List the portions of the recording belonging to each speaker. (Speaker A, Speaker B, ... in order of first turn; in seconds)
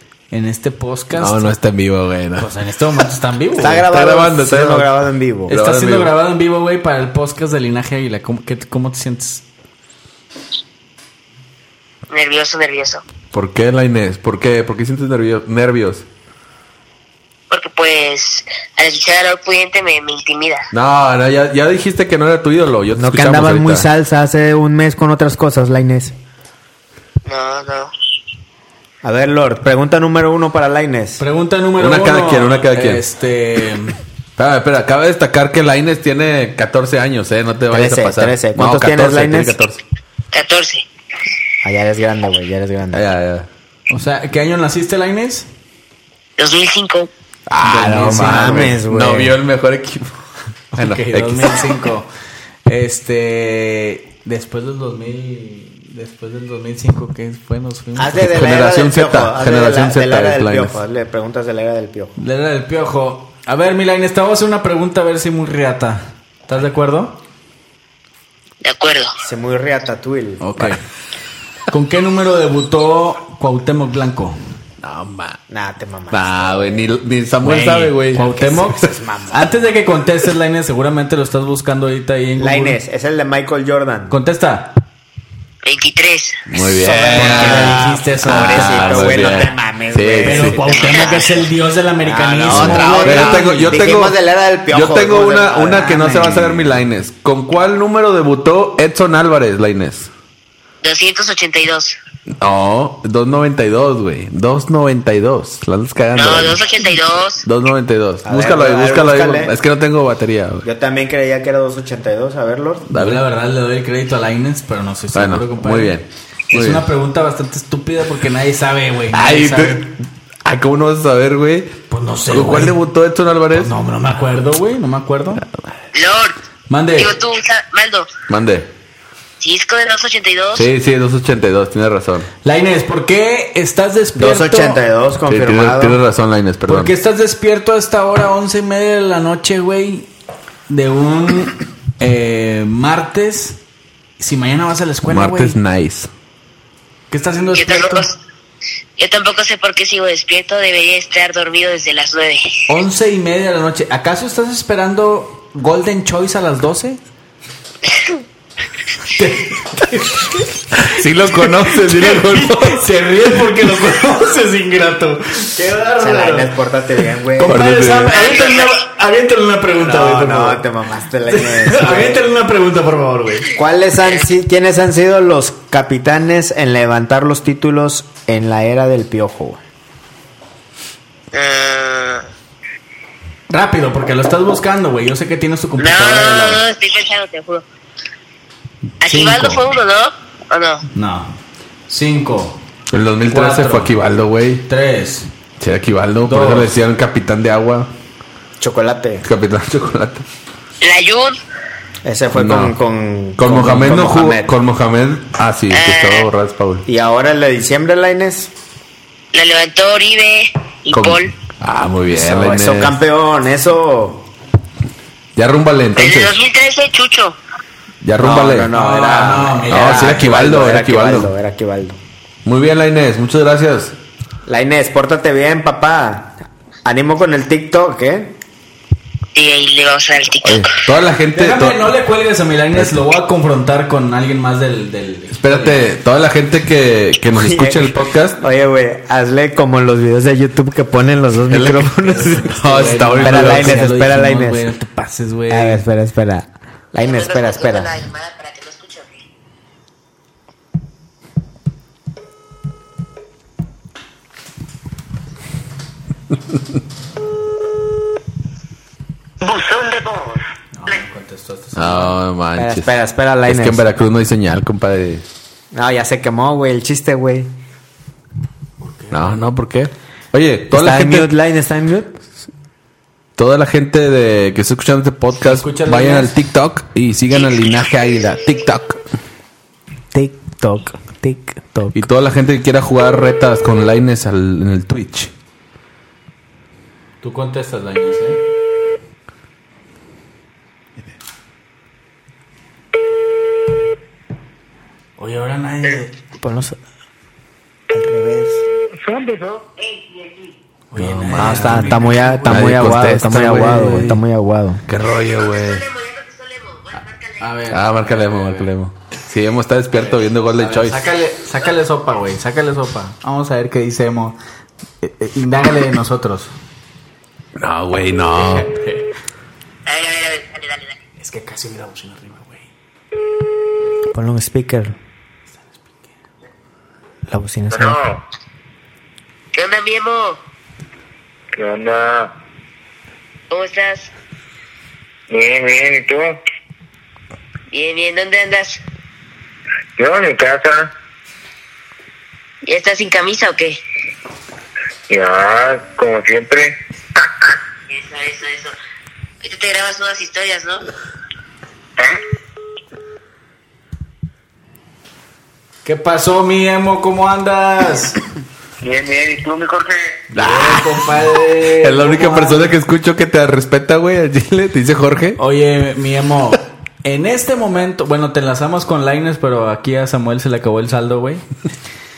Speaker A: 0.3-1.5, 2.4-3.9, 5.5-9.4, 31.2-34.0, 43.9-45.5, 47.6-48.8, 50.7-52.1, 52.7-58.3, 62.2-67.2, 70.4-70.8, 71.7-74.3, 77.4-82.8, 84.1-84.8, 86.9-89.5, 90.2-93.8, 95.7-96.8, 112.9-116.0, 116.5-119.9, 121.9-122.8, 123.5-125.4, 126.7-127.1, 132.4-134.8, 136.7-140.1, 140.7-143.6, 144.2-145.6, 147.1-148.1, 152.7-157.0, 159.1-160.5, 161.3-166.5, 167.3-170.6, 171.3-173.5, 183.5-186.6, 189.1-189.6, 190.9-191.3, 191.9-192.6, 193.3-193.9, 194.7-195.3, 196.2-196.7, 218.7-220.3, 231.3-235.8, 242.0-245.8, 260.7-262.2, 268.8-269.2, 275.4-276.3, 287.2-288.4, 295.2-296.1, 300.9-304.2, 307.4-308.7, 309.9-314.4, 315.0-316.5, 318.4-319.1, 321.2-322.7, 355.9-358.2, 360.3-362.7, 365.4-371.4
Speaker B: 1.2-2.5, 3.9-4.9, 5.5-6.1, 13.3-16.1, 20.7-23.9, 31.8-33.0, 34.4-39.8, 42.9-43.5, 47.5-50.2, 50.7-51.7, 58.2-60.7, 74.8-75.4, 76.1-78.3, 86.5-90.7, 92.5-94.2, 94.7-100.1, 102.4-106.6, 107.4-110.7, 112.9-113.2, 115.1-116.8, 119.1-123.7, 125.4-125.7, 128.3-128.7, 130.6-132.3, 135.3-136.9, 145.1-146.1, 160.8-162.8, 167.4-168.2, 192.9-194.7, 195.6-197.9, 199.2-200.2, 202.3-202.8, 203.4-206.8, 210.9-213.0, 215.4-216.3, 218.0-218.7, 219.7-221.3, 222.4-223.9, 230.4-231.9, 235.3-238.4, 241.5-243.9, 261.8-262.9, 263.4-265.2, 269.1-271.3, 273.4-279.0, 281.9-285.3, 301.0-304.1, 304.9-305.9, 307.7-311.0, 317.6-318.7, 360.4-361.1, 361.8-365.4
Speaker C: 3.6-5.5, 22.9-26.1, 29.0-31.2, 37.7-39.6, 41.6-43.1, 47.7-49.4, 58.0-62.2, 69.2-70.4, 75.5-76.9, 78.2-79.6, 82.4-84.2, 86.8-91.5, 92.0-96.3, 108.2-109.5, 110.6-112.9, 134.2-136.0, 166.0-167.6, 169.8-172.2, 173.6-179.6, 198.6-199.2, 202.0-204.5, 206.9-208.5, 212.1-214.3, 218.2-222.0, 224.5-228.3, 237.3-244.7, 245.5-247.9, 262.6-263.9, 265.7-267.5, 270.7-272.2, 280.1-282.1, 296.4-296.8, 297.9-298.6, 301.3-304.9, 324.1-324.9, 327.3-328.0
Speaker D: 12.1-13.0, 17.5-20.7, 27.2-27.9, 40.3-40.9, 46.4-47.1, 68.6-69.1, 85.7-86.4, 90.9-91.2, 100.8-102.0, 106.2-107.4, 125.9-126.4, 127.0-128.1, 129.4-130.7, 147.4-148.2, 149.0-152.6, 168.1-168.8, 181.3-182.2, 185.8-187.7, 189.0-190.8, 200.8-201.4, 205.7-206.3, 209.3-211.3, 216.0-217.4, 229.3-230.8, 247.0-249.2, 305.5-307.6, 319.9-321.0, 329.5-330.4, 333.5-334.1, 337.7-338.8, 342.6-343.8, 347.9-348.8, 349.4-350.8
Speaker E: 259.4-260.4, 298.9-300.3, 327.7-328.2, 331.5-332.3, 335.3-336.4, 340.0-340.9, 345.1-347.4, 358.8-360.2